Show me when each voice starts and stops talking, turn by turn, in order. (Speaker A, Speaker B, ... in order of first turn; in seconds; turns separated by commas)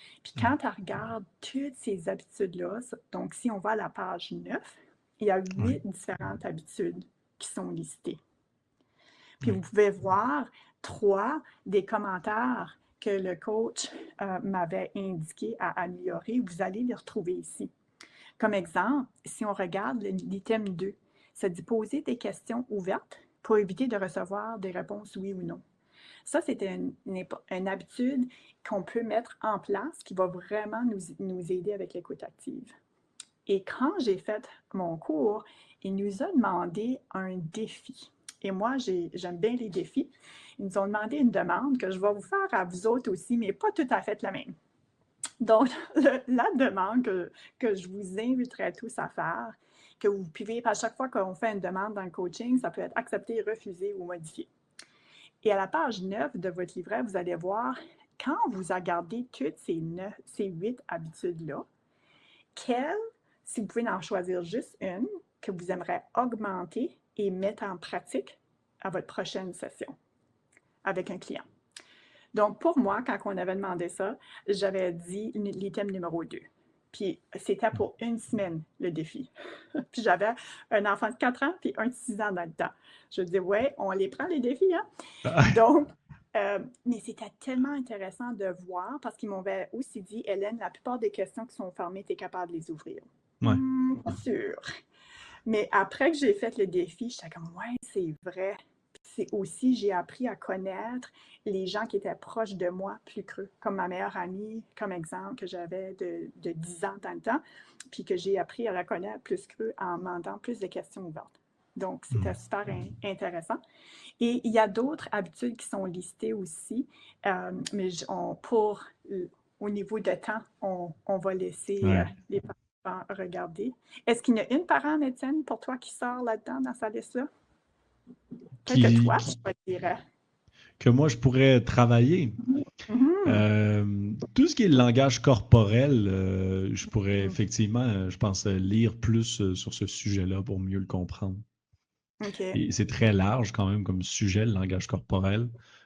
Speaker A: 0.2-8.2, Speaker A: 9.4-17.7, Speaker A: 18.4-25.6, Speaker A: 26.2-32.7, Speaker A: 33.5-44.5, Speaker A: 45.4-54.5, Speaker A: 55.4-61.7, Speaker A: 62.5-70.0, Speaker A: 70.8-71.4, Speaker A: 72.3-79.3, Speaker A: 79.9-94.7, Speaker B: 85.2-85.6, Speaker A: 95.5-113.6, Speaker A: 114.2-127.3, Speaker B: 121.8-122.1, Speaker A: 128.7-130.0, Speaker B: 128.7-129.2, Speaker B: 130.8-132.4, Speaker A: 132.9-133.4, Speaker B: 133.3-141.4, Speaker A: 142.2-142.6, Speaker B: 142.5-145.5